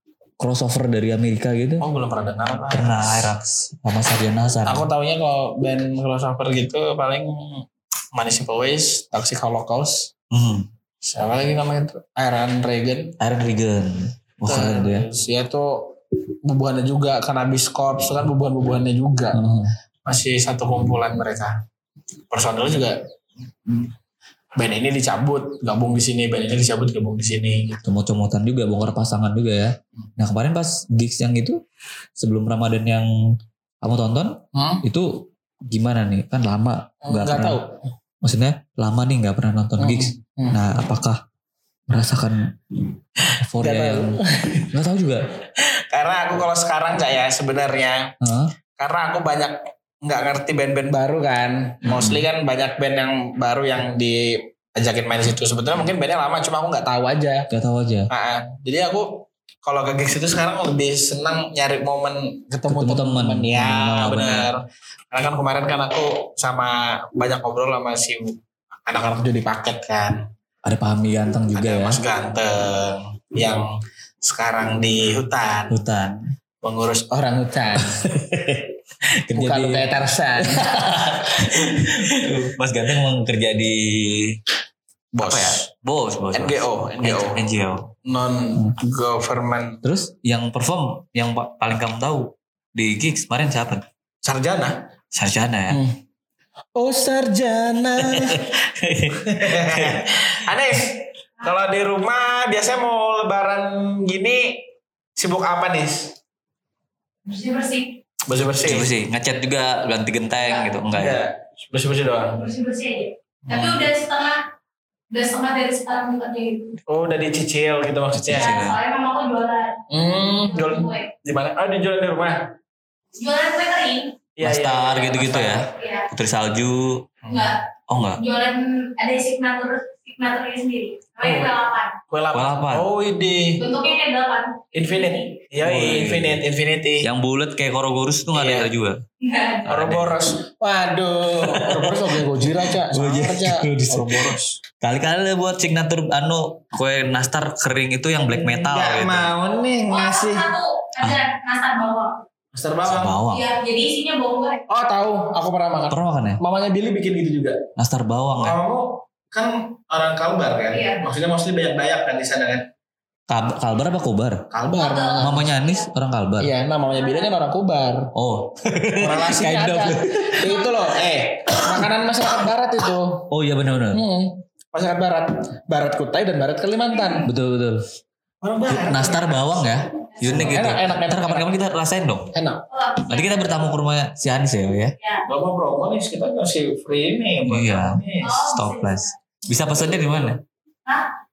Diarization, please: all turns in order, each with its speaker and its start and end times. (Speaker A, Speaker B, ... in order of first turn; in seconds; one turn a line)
Speaker A: 0.4-1.8
Speaker B: 1.8-3.2
Speaker A: 2.7-4.9
Speaker B: 4.7-10.1
Speaker A: 10.3-10.7
Speaker B: 11.0-13.1
Speaker A: 13.2-15.1
Speaker B: 14.5-19.4
Speaker A: 19.3-19.7
Speaker B: 20.1-21.6
Speaker B: 22.3-23.0
Speaker B: 24.6-27.8
Speaker A: 27.8-31.6
Speaker A: 32.2-33.1
Speaker A: 33.8-37.6
Speaker B: 34.5-34.8
Speaker B: 37.0-37.8
Speaker A: 38.2-41.2
Speaker B: 39.8-40.6
Speaker A: 41.9-42.5
Speaker A: 43.4-44.2
Speaker B: 43.6-44.7
Speaker A: 44.7-45.3
Speaker B: 45.6-48.1
Speaker A: 48.2-48.5
Speaker B: 48.8-57.5
Speaker A: 51.8-52.2
Speaker A: 57.5-58.1
Speaker B: 58.1-70.2
Speaker A: 62.7-64.5
Speaker A: 70.6-72.0
Speaker B: 71.5-73.7
Speaker B: 74.2-75.8
Speaker A: 75.7-76.3
Speaker B: 76.6-78.0
Speaker A: 77.8-78.7
Speaker A: 79.2-84.4
Speaker B: 79.3-82.4
Speaker B: 85.1-85.7
Speaker A: 85.2-87.9
Speaker B: 86.3-87.4
Speaker B: 88.0-89.8
Speaker A: 89.8-93.8
Speaker B: 94.2-94.8
Speaker A: 95.1-95.8
Speaker B: 95.7-96.0
Speaker B: 96.8-98.5
Speaker A: 98.0-100.3
Speaker B: 99.1-104.6
Speaker B: 105.2-106.1
Speaker C: 107.2-107.9
Speaker B: 108.3-108.9
Speaker A: 108.6-111.2
Speaker B: 110.9-112.4
Speaker C: 112.4-114.4
Speaker A: 113.5-113.9
Speaker C: 115.1-116.8
Speaker B: 116.9-118.6
Speaker A: 118.2-118.8
Speaker C: 118.3-119.8
Speaker B: 119.9-122.5
Speaker C: 120.4-121.1
Speaker C: 123.2-124.1
Speaker B: 124.4-125.7
Speaker A: 124.4-127.1
Speaker C: 125.7-126.1
Speaker B: 127.2-127.5
Speaker C: 127.3-127.5
Speaker A: 127.9-128.2
Speaker C: 128.1-131.9
Speaker B: 131.2-131.5
Speaker B: 132.1-133.6
Speaker A: 132.3-132.8
Speaker C: 133.6-134.6
Speaker B: 134.7-137.1
Speaker A: 135.6-136.4
Speaker A: 137.0-139.0
Speaker B: 138.3-138.7
Speaker C: 139.2-139.7
Speaker A: 139.6-140.2
Speaker B: 139.7-144.6
Speaker A: 141.3-149.3
Speaker B: 148.3-150.5
Speaker C: 149.9-152.2
Speaker B: 152.5-153.2
Speaker A: 152.8-153.5
Speaker C: 153.3-154.6
Speaker B: 154.7-157.6
Speaker A: 155.9-156.4
Speaker A: 157.8-158.6
Speaker B: 158.4-162.7
Speaker C: 160.7-161.0
Speaker A: 163.3-164.4
Speaker B: 164.5-165.5
Speaker C: 164.8-165.8
Speaker A: 165.2-166.5
Speaker B: 166.4-168.1
Speaker A: 168.1-170.8
Speaker B: 168.9-173.3
Speaker A: 173.3-174.0
Speaker B: 173.9-177.3
Speaker A: 177.2-177.8
Speaker B: 178.4-179.5
Speaker A: 178.7-182.3
Speaker C: 180.2-180.6
Speaker B: 180.2-181.5
Speaker B: 182.3-182.6
Speaker C: 182.7-183.5
Speaker A: 183.1-184.9
Speaker B: 185.2-188.4
Speaker A: 187.4-190.4
Speaker C: 188.2-189.1